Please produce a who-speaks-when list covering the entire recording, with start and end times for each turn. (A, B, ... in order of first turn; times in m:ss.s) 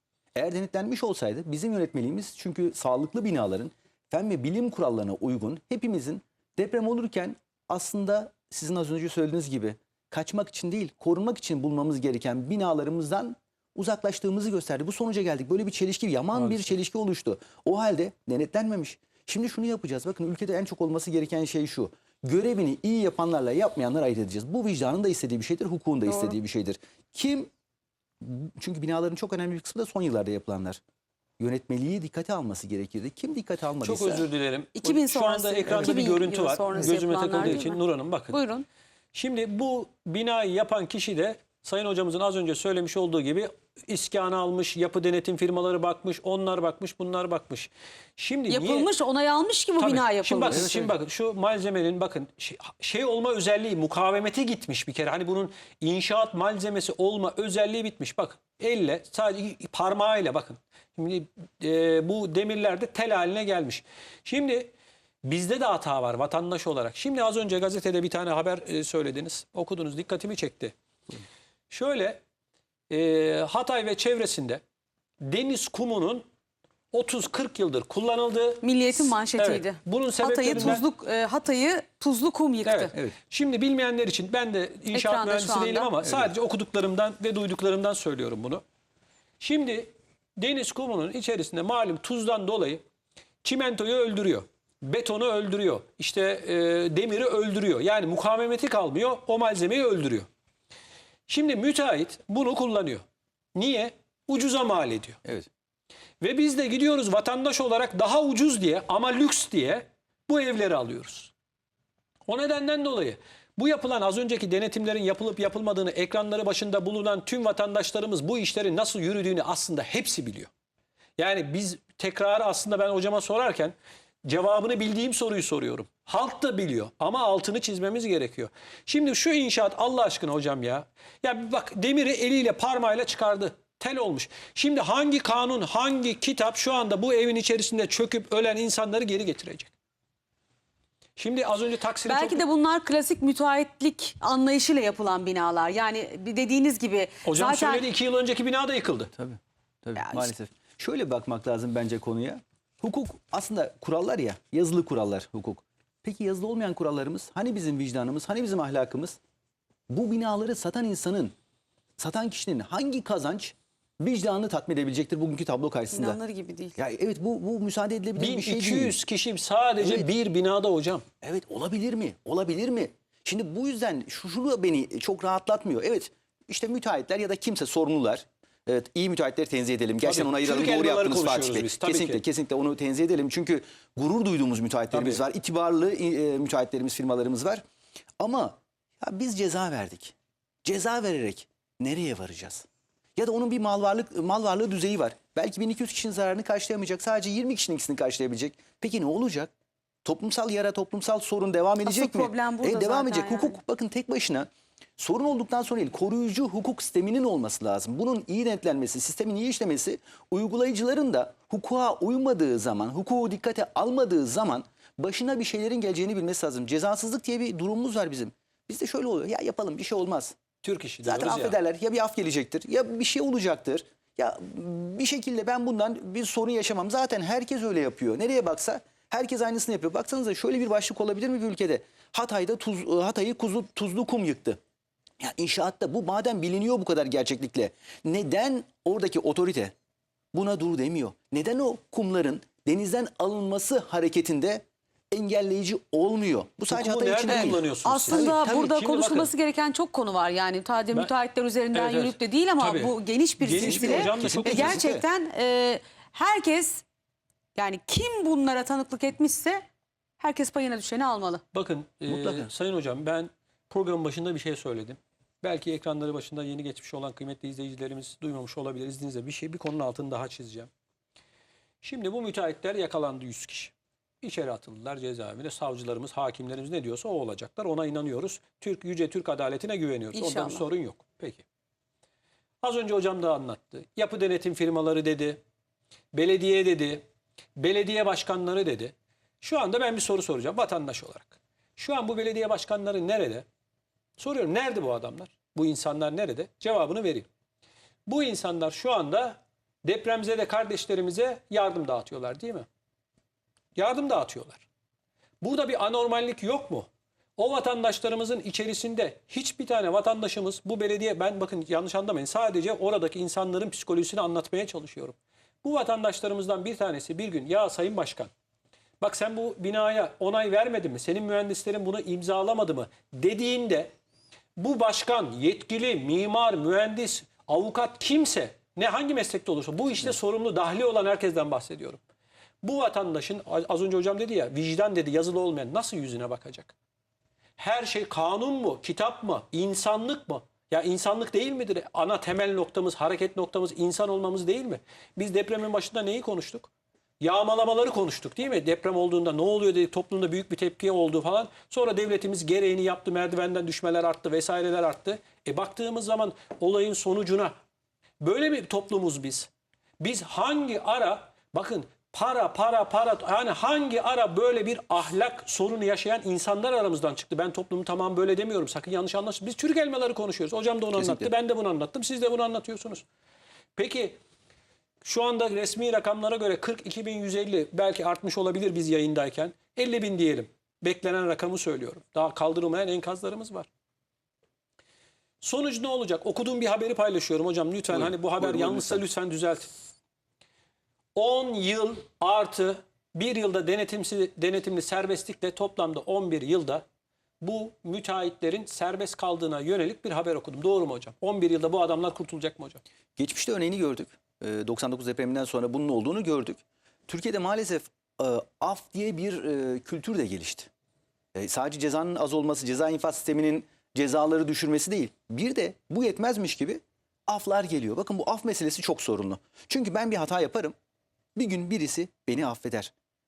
0:00.3-0:27.5 A
0:26.1-0:26.3 B
0:28.2-0:30.8 A
0:31.4-0:34.2 A
0:33.8-0:38.4 C
0:34.8-0:38.6 B
0:39.1-0:48.9 C
0:48.5-0:50.7 B
0:49.8-1:04.7 C
0:50.5-0:50.9 A
1:05.2-1:10.7 C
1:11.7-1:12.2 C
1:12.9-1:14.6 C
1:15.2-1:16.2 C
1:16.9-1:20.8 C
1:18.6-1:22.9 B
1:22.6-1:28.6 C
1:24.9-1:25.9 B
1:26.0-1:26.3 A
1:29.4-1:32.8 C
1:33.4-1:40.3 C
1:41.3-1:43.0 C
1:43.5-1:45.2 C
1:46.2-1:51.3 C
1:52.3-2:00.5 C
2:01.2-2:03.7 C
2:04.2-2:19.7 C
2:21.2-2:22.4 C
2:22.0-2:27.8 B
2:27.2-2:29.1 C
2:29.2-2:39.2 A
2:30.0-2:30.3 B
2:39.9-2:41.3 A
2:42.0-2:46.2 A
2:45.9-2:46.8 B
2:46.8-2:49.0 A
2:48.2-2:51.0 C
2:49.8-2:50.1 A
2:51.2-3:07.6 A
3:00.0-3:02.2 C
3:04.9-3:05.2 C
3:08.2-3:19.5 A
3:20.0-3:40.4 A
3:21.8-3:23.6 B
3:40.6-3:41.6 C
3:41.0-3:54.6 A
3:55.2-3:59.7 A
4:00.3-4:09.0 A
4:06.7-4:09.3 C
4:07.3-4:16.8 B
4:11.7-4:14.8 C
4:13.5-4:15.0 A
4:17.5-4:19.6 B
4:20.2-4:21.4 B
4:21.5-4:30.7 C
4:22.1-4:22.5 A
4:31.8-4:41.4 C
4:40.1-4:40.6 B
4:42.6-4:45.4 C
4:46.1-4:47.0 C
4:47.6-4:53.4 C
4:54.2-4:57.3 C
4:58.0-5:02.7 C
5:03.8-5:04.6 C
5:05.4-5:18.3 C
5:19.0-5:23.9 C
5:24.6-5:32.0 C
5:32.6-5:36.7 C
5:37.6-5:46.7 C
5:47.2-5:57.5 C
5:58.2-6:13.0 C
6:10.9-6:11.3 A
6:13.8-6:14.2 C
6:15.0-6:23.7 C
6:25.4-6:29.7 C
6:27.9-6:29.0 A
6:31.1-6:36.8 C
6:37.4-6:42.8 C
6:43.2-6:50.7 A
6:51.3-7:00.7 A
7:01.4-7:02.9 A